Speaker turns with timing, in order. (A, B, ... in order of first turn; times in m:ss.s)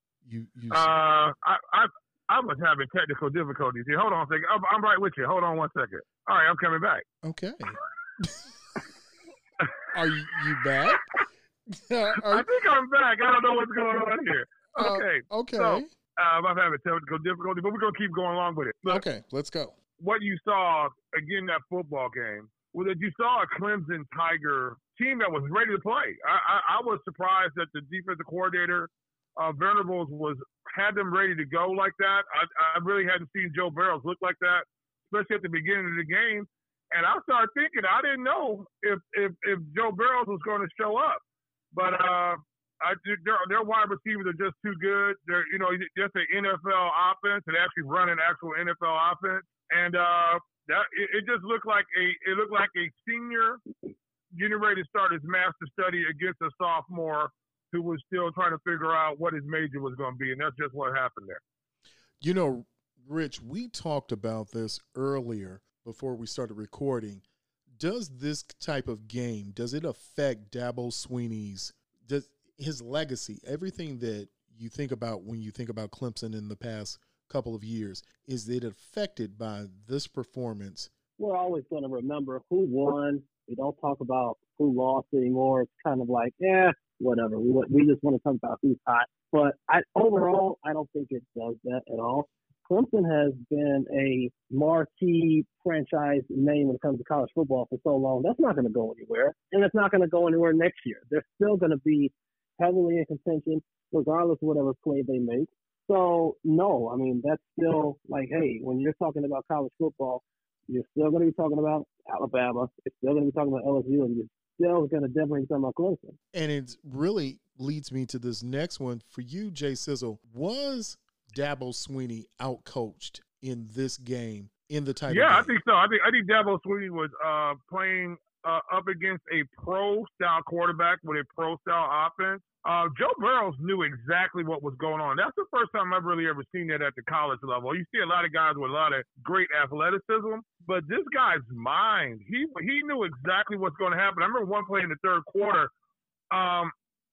0:00.2-0:01.0 A
0:00.7-0:07.0 B
0:07.2-0:08.4 A
0:09.9-0:11.0 A
0:11.7-0:12.5 A
0:12.2-0:19.0 B
0:14.8-0:15.9 A
0:18.9-0:19.8 A
0:20.0-0:41.2 B
0:41.7-0:53.6 B
0:54.3-1:01.4 B
1:02.2-1:07.2 A
1:07.8-1:20.9 A
1:21.2-1:56.2 C
1:56.3-2:05.5 A
2:05.1-2:25.7 B
2:26.3-2:26.7 B